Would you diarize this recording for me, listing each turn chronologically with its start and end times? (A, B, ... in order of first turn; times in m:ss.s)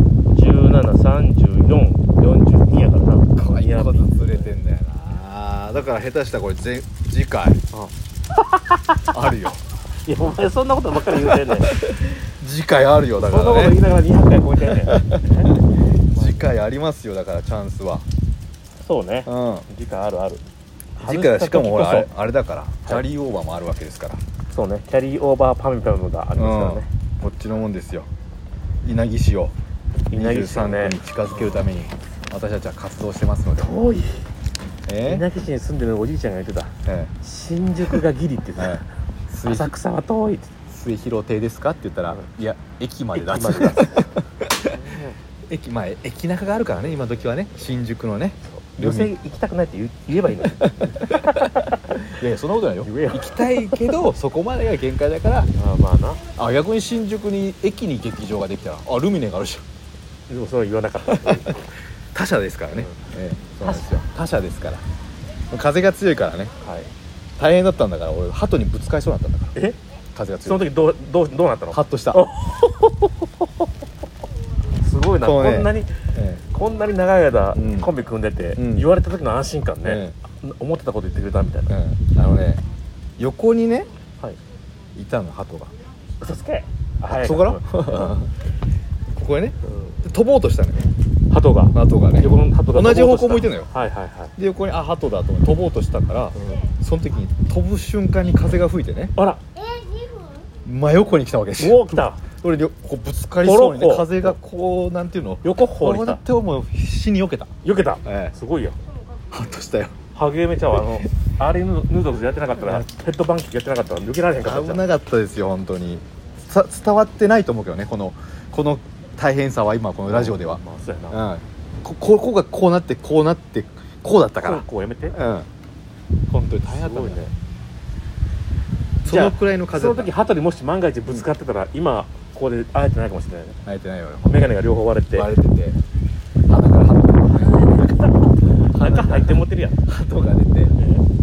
0:00.3-0:04.6 A
0:03.3-0:07.6 B
0:07.7-0:09.3 A
0:09.1-0:09.6 B
0:10.0-0:11.7 A
0:11.1-0:13.8 B
0:13.2-0:16.6 A
0:14.8-0:15.5 B
0:16.1-0:18.0 B
0:18.8-0:20.4 A
0:19.2-0:19.7 B
0:21.0-0:22.1 A
0:21.0-0:24.2 B
0:24.5-0:26.9 A
0:26.4-0:28.1 B
0:28.8-0:29.5 B
0:30.1-0:31.6 A
0:30.1-0:33.8 B
0:33.6-0:34.2 A
0:34.9-0:35.2 B
0:35.0-0:38.9 A
0:36.8-0:37.1 B
0:38.6-0:39.7 B
0:39.4-0:40.5 A
0:40.7-0:44.7 B
0:43.1-0:45.2 A
0:45.5-0:49.1 B
0:48.5-0:52.0 A
0:50.6-0:55.5 B
0:52.8-0:54.0 A
0:55.5-0:56.2 A
0:56.4-0:59.6 B
1:00.3-1:01.7 A
1:01.0-1:01.5 B
1:02.1-1:04.8 B
1:03.6-1:03.9 A
1:05.5-1:06.5 B
1:06.6-1:06.9 A
1:07.4-1:09.6 B
1:10.1-1:10.7 B
1:10.4-1:13.3 A
1:11.7-1:12.3 B
1:14.8-1:15.9 A
1:15.2-1:16.4 B
1:16.5-1:21.7 A
1:17.5-1:17.9 B
1:18.6-1:18.9 B
1:19.8-1:20.1 B
1:21.7-1:22.6 B
1:23.2-1:23.9 B
1:25.0-1:25.7 B
1:26.2-1:27.8 A
1:27.1-1:28.3 B
1:29.1-1:30.9 B
1:29.6-1:30.0 A
1:31.3-1:34.3 A
1:31.7-1:33.7 B
1:34.4-1:39.1 B
1:36.3-1:36.6 A
1:39.2-1:39.4 A
1:40.6-1:47.5 B
1:41.6-1:42.2 A
1:43.4-1:44.4 A
1:45.4-1:46.2 A
1:47.6-1:48.8 A
1:48.0-1:48.3 B
1:49.3-1:49.9 B
1:50.1-1:54.9 A
1:52.6-1:52.8 B
1:54.4-2:05.5 B
2:00.1-2:01.2 A
2:04.4-2:05.2 A
2:06.3-2:07.2 B
2:06.6-2:07.3 A
2:09.0-2:10.1 B
2:09.0-2:13.6 A
2:13.6-2:14.5 B
2:14.2-2:15.3 A
2:15.1-2:15.8 B
2:16.5-2:17.8 B
2:17.3-2:21.0 A
2:18.6-2:20.8 B